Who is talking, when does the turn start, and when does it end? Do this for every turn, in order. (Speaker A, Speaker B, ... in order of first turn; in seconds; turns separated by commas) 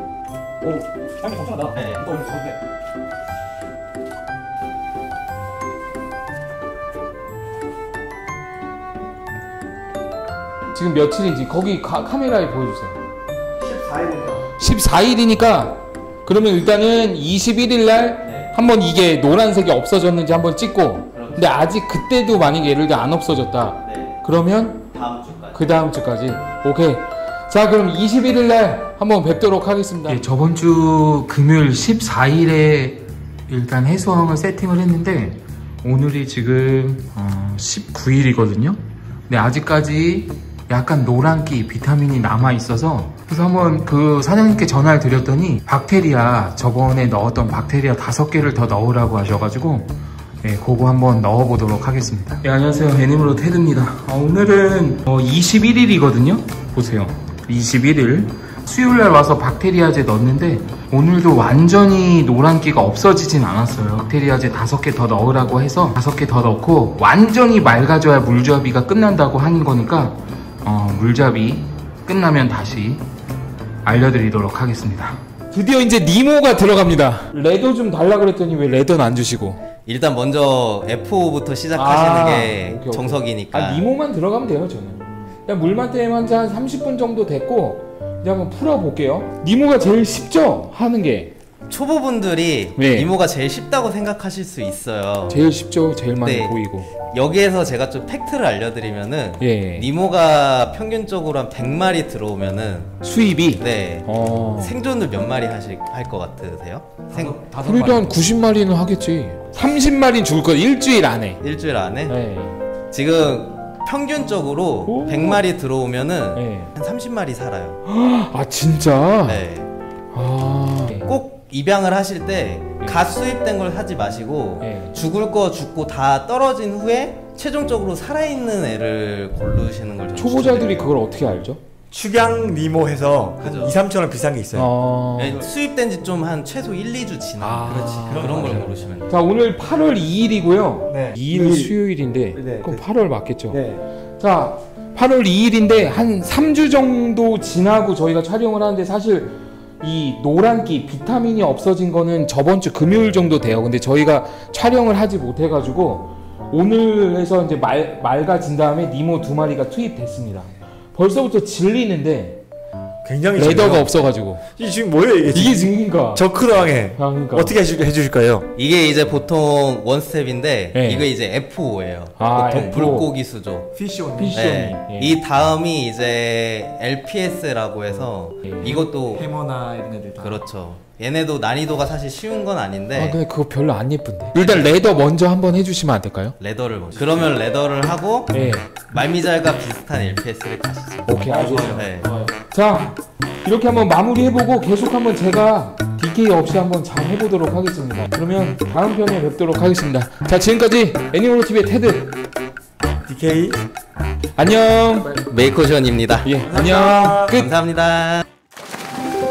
Speaker A: 0.6-2.6, Speaker B: 1.8-2.1, Speaker C: 10.7-13.0, Speaker A: 13.6-14.5, Speaker C: 14.6-24.8, Speaker B: 18.2-18.5, Speaker B: 21.1-21.6, Speaker B: 23.8-24.2, Speaker B: 24.9-25.7, Speaker C: 25.5-73.0, Speaker C: 73.8-79.6, Speaker B: 79.9-83.9, Speaker C: 81.7-91.3, Speaker B: 91.7-95.4, Speaker C: 92.8-93.1, Speaker C: 95.3-96.9, Speaker B: 96.2-102.9, Speaker C: 99.4-99.9, Speaker C: 103.0-104.8, Speaker B: 103.6-107.4, Speaker A: 107.1-108.2, Speaker C: 107.6-111.4, Speaker B: 111.4-112.2, Speaker C: 112.1-112.6, Speaker B: 112.9-117.8, Speaker C: 114.9-115.5, Speaker C: 116.3-116.7, Speaker C: 117.8-119.5, Speaker B: 119.2-119.7, Speaker C: 120.1-121.2, Speaker B: 121.1-130.9, Speaker C: 122.8-123.1, Speaker C: 124.6-125.0, Speaker C: 130.2-131.6, Speaker A: 131.9-134.7, Speaker B: 133.4-133.8, Speaker C: 134.5-135.4, Speaker B: 135.2-139.2, Speaker C: 137.4-143.6, Speaker A: 137.7-138.7, Speaker A: 140.9-141.8, Speaker A: 142.3-142.8, Speaker A: 143.5-143.8, Speaker C: 144.2-162.4, Speaker A: 163.0-164.0, Speaker C: 163.3-164.4, Speaker A: 164.6-168.5, Speaker C: 165.3-166.3, Speaker C: 166.9-167.6, Speaker B: 168.6-173.7, Speaker C: 170.7-171.1, Speaker C: 172.2-173.1, Speaker A: 173.8-174.5, Speaker C: 174.2-175.2, Speaker B: 174.3-179.3, Speaker C: 178.4-178.8, Speaker A: 178.6-180.4, Speaker B: 180.2-183.2, Speaker C: 182.9-186.4, Speaker B: 184.3-184.8, Speaker B: 186.4-192.1, Speaker C: 188.3-188.7, Speaker C: 191.1-202.2, Speaker A: 191.2-191.9, Speaker A: 203.1-203.6, Speaker C: 204.4-205.2, Speaker B: 205.1-206.4, Speaker C: 206.2-207.5, Speaker A: 206.4-207.4, Speaker B: 207.3-208.3